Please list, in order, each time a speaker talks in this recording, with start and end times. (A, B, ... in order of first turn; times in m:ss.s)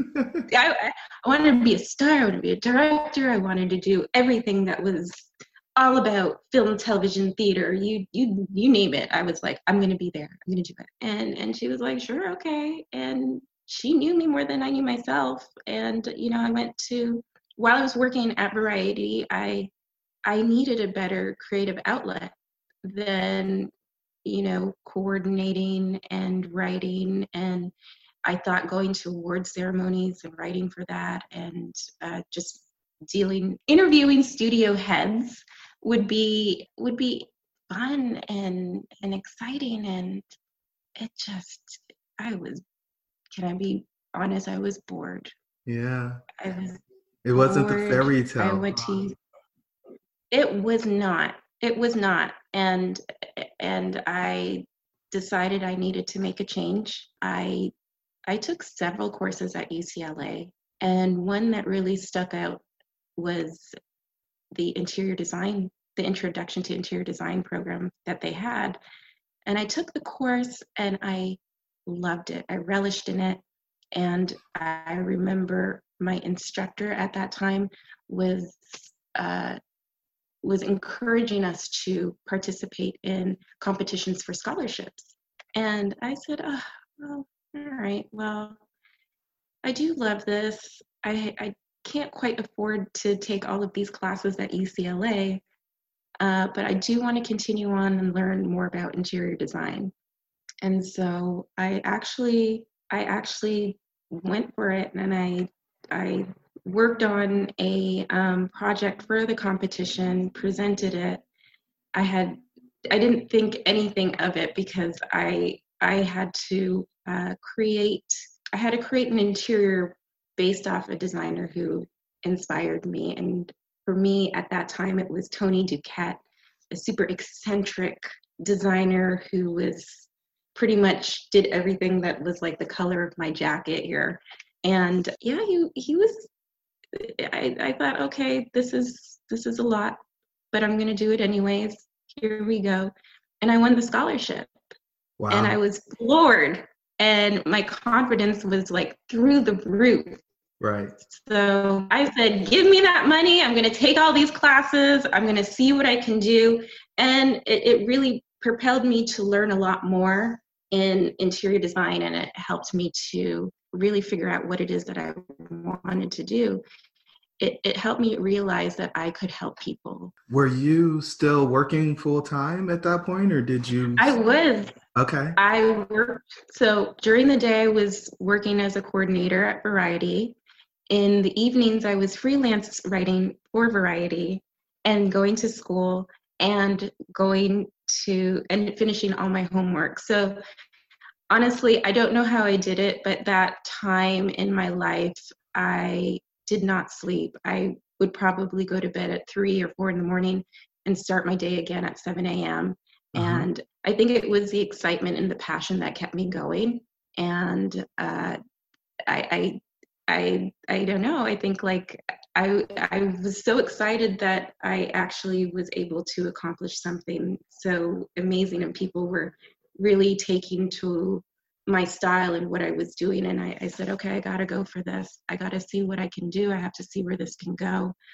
0:00.5-0:19.7 A
0:20.2-0:23.7 A
0:24.2-0:27.7 A
0:28.2-0:40.2 A
0:41.0-0:42.6 A
0:43.3-0:45.3 A
0:45.6-0:46.2 B
0:46.4-0:46.8 A
0:47.2-0:49.1 B
0:47.3-0:49.1 A
0:50.3-0:57.7 A
0:58.3-1:02.6 A
1:03.2-1:03.7 A
1:04.5-1:08.8 A
1:09.5-1:13.4 A
1:13.9-1:19.6 A
1:20.4-1:28.6 A
1:29.6-1:35.4 A
1:36.2-1:39.9 A
1:40.6-1:51.2 A
1:52.0-2:16.3 A
2:16.9-2:20.0 A
2:20.5-2:24.6 A
2:25.2-2:25.6 B
2:25.3-2:30.2 A
2:30.6-2:30.9 B
2:31.0-2:46.6 A
2:47.4-2:50.1 A
2:50.3-2:54.1 B
2:54.0-2:54.7 A
2:54.9-2:55.4 B
2:55.4-3:00.4 A
3:00.9-3:10.4 A
3:11.3-3:28.4 A
3:23.1-3:23.5 B
3:29.1-3:48.0 A